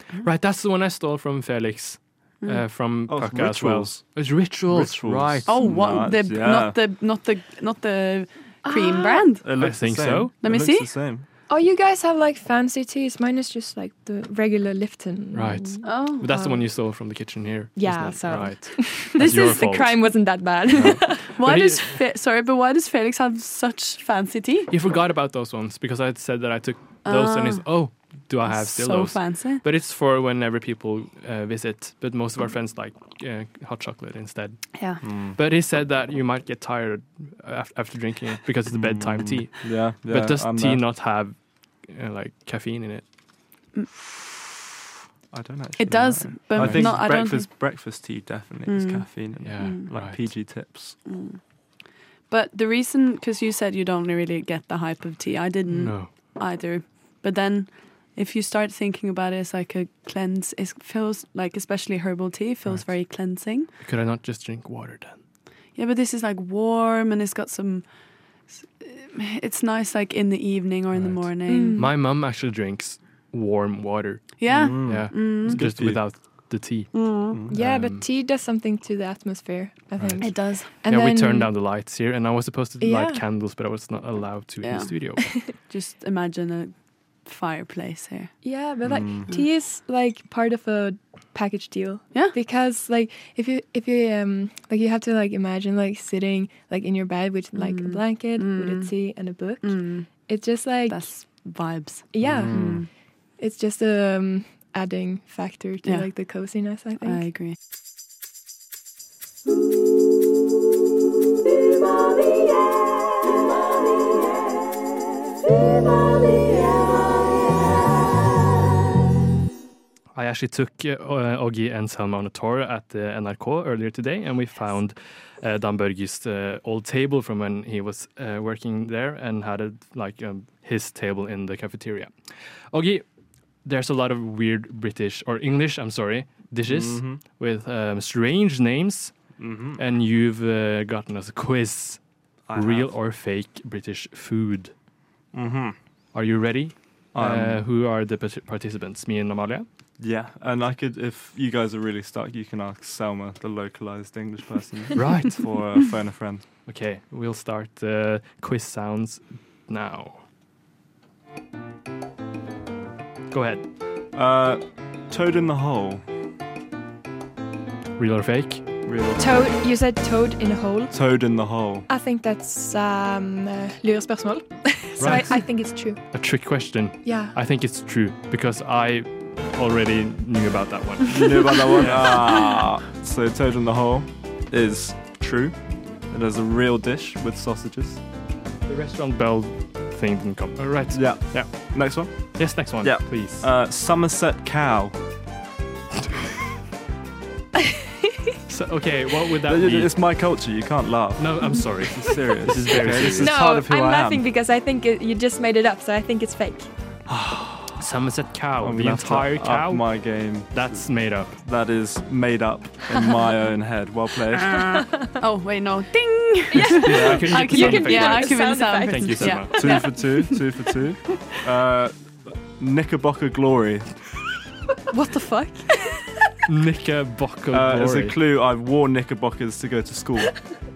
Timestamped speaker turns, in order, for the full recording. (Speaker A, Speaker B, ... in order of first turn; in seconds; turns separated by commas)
Speaker A: 0.2-5.5, Speaker B: 3.1-6.8, Speaker C: 5.5-9.5, Speaker D: 8.6-9.3, Speaker B: 9.4-11.2, Speaker A: 9.6-10.3, Speaker C: 10.4-10.9, Speaker D: 11.5-16.6, Speaker A: 15.3-19.9, Speaker C: 15.8-16.3, Speaker D: 17.8-21.3, Speaker C: 19.2-19.6, Speaker C: 21.3-24.7, Speaker A: 21.4-22.0, Speaker A: 24.7-43.0, Speaker C: 27.0-27.7, Speaker C: 28.4-29.6, Speaker B: 35.0-35.4, Speaker B: 38.7-40.8, Speaker B: 45.3-51.0, Speaker C: 45.8-47.5, Speaker A: 46.6-47.0, Speaker C: 48.7-49.1, Speaker A: 49.4-50.2, Speaker C: 49.6-49.9, Speaker C: 51.0-51.4, Speaker C: 52.3-63.7, Speaker A: 55.7-56.1, Speaker A: 63.8-65.2, Speaker C: 65.7-67.9, Speaker C: 68.5-71.8, Speaker A: 70.9-77.0, Speaker D: 71.5-71.9, Speaker C: 74.4-75.6, Speaker B: 74.5-76.1, Speaker C: 76.9-77.3, Speaker B: 77.3-77.6, Speaker D: 77.5-81.5, Speaker A: 77.5-78.0, Speaker A: 80.0-85.4, Speaker C: 80.2-80.7, Speaker D: 82.8-83.2, Speaker C: 84.6-88.4, Speaker D: 88.4-101.0, Speaker B: 88.8-89.3, Speaker C: 97.5-98.9, Speaker C: 99.6-100.1, Speaker C: 100.9-102.9, Speaker D: 102.1-102.8, Speaker B: 102.2-102.8, Speaker D: 103.4-107.2, Speaker C: 107.0-107.6, Speaker A: 120.1-132.1, Speaker A: 132.7-133.0, Speaker A: 133.6-139.2, Speaker B: 136.6-137.2, Speaker B: 139.4-139.8, Speaker A: 139.8-142.0, Speaker B: 142.5-142.9, Speaker A: 142.5-144.7, Speaker B: 145.3-145.8, Speaker A: 146.1-149.7, Speaker B: 147.1-147.6, Speaker B: 150.0-156.4, Speaker A: 154.9-155.4, Speaker A: 156.7-160.2, Speaker A: 163.3-163.6, Speaker B: 164.1-166.0, Speaker A: 168.0-168.6, Speaker B: 168.8-169.5, Speaker D: 169.2-170.9, Speaker B: 170.9-171.9, Speaker D: 171.9-176.0, Speaker A: 175.0-175.6, Speaker A: 176.1-182.3, Speaker D: 177.0-177.3, Speaker B: 181.0-185.5, Speaker B: 186.1-188.0, Speaker A: 188.7-193.5, Speaker B: 190.9-194.9, Speaker A: 198.5-199.9, Speaker B: 199.4-204.2, Speaker A: 201.2-203.3, Speaker D: 203.1-206.7, Speaker B: 207.1-207.8, Speaker A: 207.8-211.3, Speaker B: 208.6-214.8, Speaker C: 214.8-220.4, Speaker D: 216.5-220.0, Speaker A: 216.6-219.8, Speaker B: 216.9-217.3, Speaker B: 219.5-223.9, Speaker D: 224.9-226.1, Speaker A: 226.5-228.2, Speaker B: 227.5-230.4